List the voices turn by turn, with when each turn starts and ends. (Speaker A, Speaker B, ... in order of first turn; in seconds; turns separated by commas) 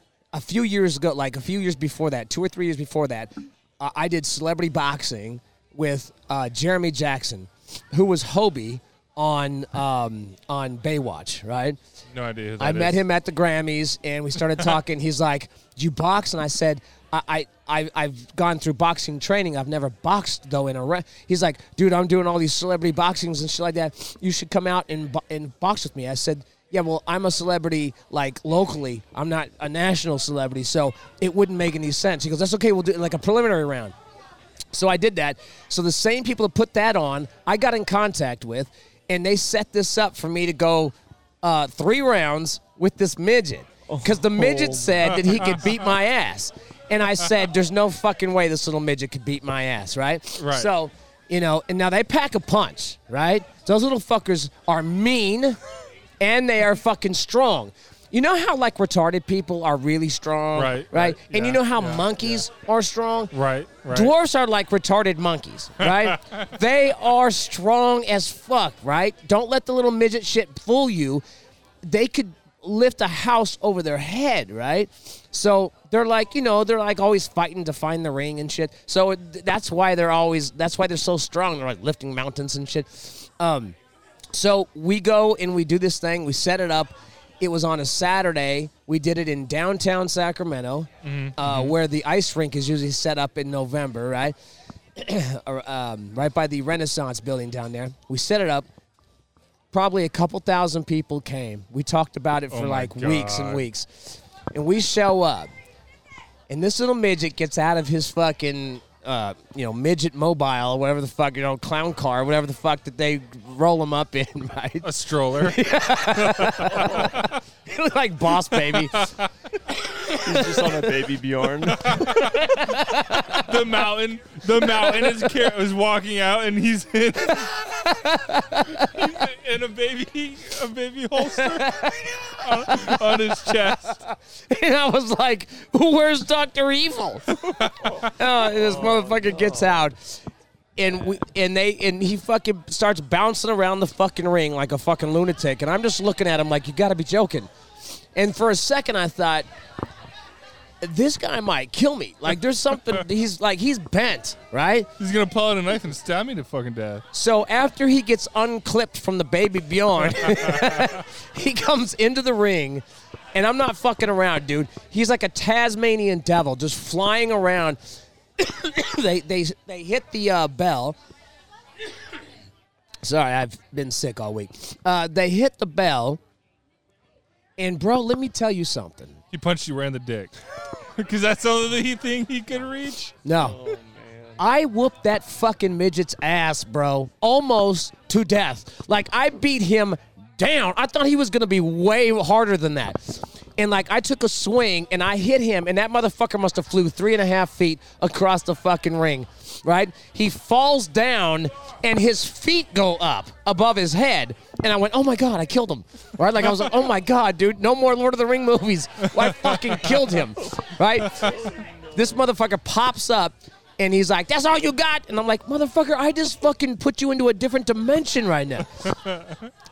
Speaker A: 0.3-11.8, Speaker B: 12.1-13.0, Speaker A: 12.6-34.0, Speaker A: 34.7-55.6, Speaker C: 43.9-44.8, Speaker B: 45.1-45.8, Speaker B: 50.4-50.7, Speaker A: 56.2-63.3, Speaker B: 60.5-62.5, Speaker B: 63.3-64.1, Speaker A: 63.9-71.2, Speaker B: 65.8-66.5, Speaker A: 71.8-83.8, Speaker A: 84.3-94.3, Speaker B: 91.0-91.8, Speaker A: 95.0-98.7, Speaker A: 99.7-105.5, Speaker B: 102.5-103.7, Speaker A: 106.5-119.1, Speaker B: 114.8-117.4, Speaker B: 118.4-119.3, Speaker A: 119.9-120.8, Speaker C: 120.1-122.1, Speaker B: 121.7-127.9, Speaker A: 122.0-123.5, Speaker A: 124.8-125.2, Speaker A: 127.8-129.0, Speaker B: 128.7-134.0, Speaker A: 131.3-137.4, Speaker B: 137.4-138.0, Speaker A: 138.0-140.0, Speaker C: 138.5-139.9, Speaker A: 140.8-147.5, Speaker A: 148.2-149.5, Speaker A: 150.8-154.9, Speaker B: 155.0-157.0, Speaker A: 157.1-162.8, Speaker B: 160.1-161.0, Speaker A: 163.3-167.8, Speaker A: 168.4-171.0, Speaker A: 173.0-176.2, Speaker A: 177.6-179.2, Speaker B: 179.3-180.3, Speaker B: 180.9-183.2, Speaker A: 183.2-183.6, Speaker C: 183.3-184.4, Speaker A: 184.4-211.3, Speaker B: 209.2-210.0, Speaker C: 211.2-212.1, Speaker A: 211.9-218.9, Speaker B: 219.1-219.3